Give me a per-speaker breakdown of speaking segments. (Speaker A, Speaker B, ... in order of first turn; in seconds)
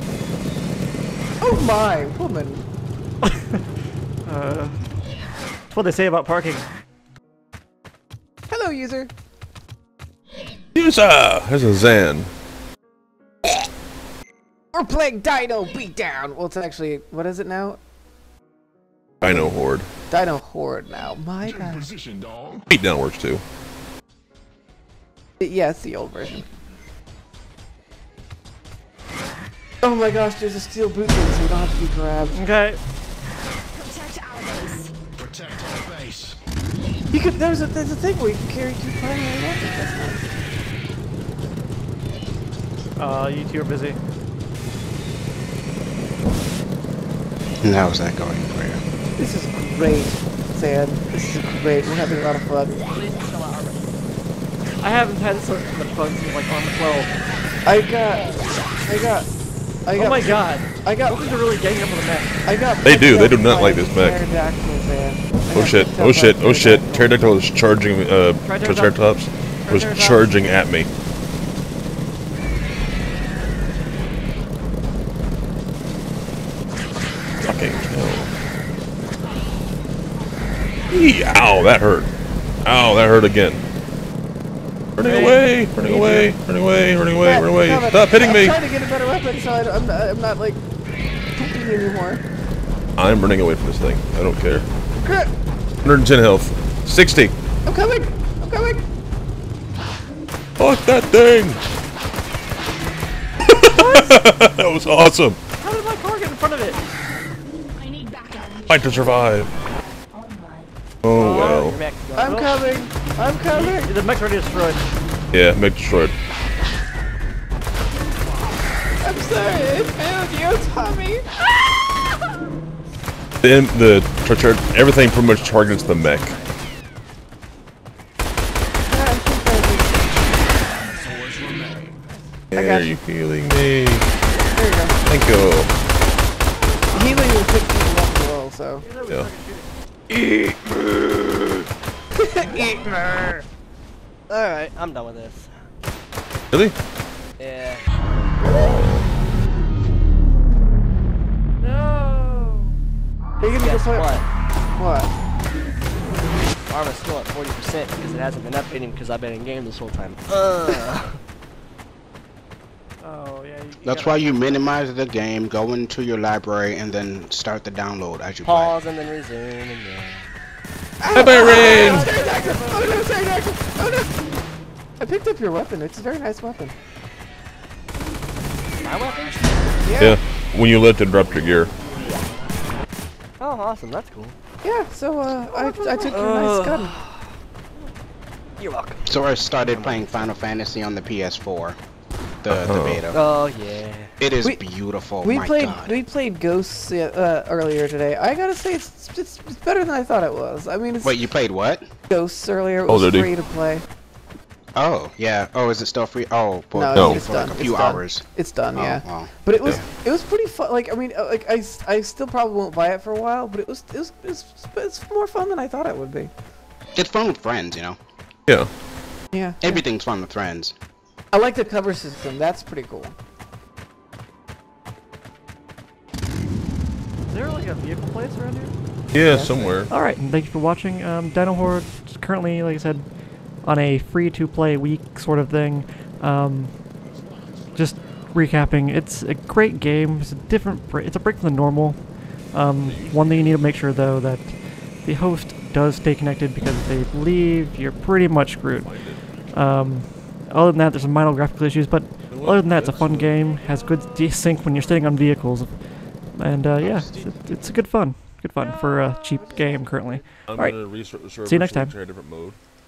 Speaker A: 1.4-2.6, 8.5-9.1, 14.7-17.8, 19.2-19.5, 20.1-21.9, 25.4-26.4, 29.8-32.4, 37.1-40.3, 49.2-52.8, 57.6-59.3, 59.9-61.2, 62.5-67.1, 85.0-86.3, 87.2-90.6, 91.3-92.2, 95.0-95.3, 97.6-98.8, 112.2-113.9, 119.0-121.3, 128.9-130.1, 132.5-132.9, 134.4-135.0, 136.9-138.9, 142.1-143.4, 153.4-154.2, 154.8-155.1, 171.0-174.2, 175.0-176.7, 179.8-180.2, 184.6-186.9, 195.2-201.2, 202.1-203.8, 206.7-216.3, 219.3-219.8, 221.3-223.1, 229.2-229.7, 259.4-259.9
Speaker B: 3.2-3.6, 4.2-4.8, 5.7-6.7, 32.3-32.8, 43.0-44.0, 54.8-57.1, 60.0-62.4, 68.4-69.0, 69.6-70.3, 103.7-104.2, 105.6-106.8, 112.2-112.5, 113.5-114.8, 136.7-137.2, 138.8-139.7, 151.6-152.8, 163.0-164.6, 171.3-173.0, 227.3-228.7, 229.9-233.1, 233.6-236.9, 237.7-261.9
Speaker C: 10.7-12.3, 19.2-19.9, 22.7-23.4, 62.8-64.2, 65.5-70.9, 77.4-78.3, 80.9-82.1, 82.6-83.6, 85.0-88.6, 93.0-94.7, 95.8-97.3, 100.6-101.6, 103.5-105.4, 108.7-109.5, 111.0-111.8, 115.3-116.1, 123.4-126.3, 132.5-134.1, 135.0-135.7, 148.5-149.0, 171.1-172.1, 180.0-181.7, 192.5-193.0, 202.9-203.3, 206.9-207.2, 229.1-229.9, 242.8-243.6, 248.7-249.2, 252.3-253.3, 260.5-262.6
Speaker D: 21.4-22.7, 35.1-36.4, 130.0-132.2, 181.1-182.3, 237.0-238.6, 249.2-249.9
Speaker E: 33.7-34.9, 107.7-109.2, 110.1-110.7
Speaker F: 47.6-48.8, 163.8-168.8, 189.1-191.8, 192.4-193.2, 194.2-196.0, 201.0-201.9, 204.8-209.9, 216.9-218.0, 219.6-220.7
Speaker G: 52.9-53.8, 111.1-112.4, 144.3-145.5, 147.4-147.9, 153.4-154.2, 156.7-161.2, 168.4-170.3, 178.8-180.1, 183.4-184.4, 185.5-187.3, 188.6-189.0, 189.6-190.3, 193.1-194.1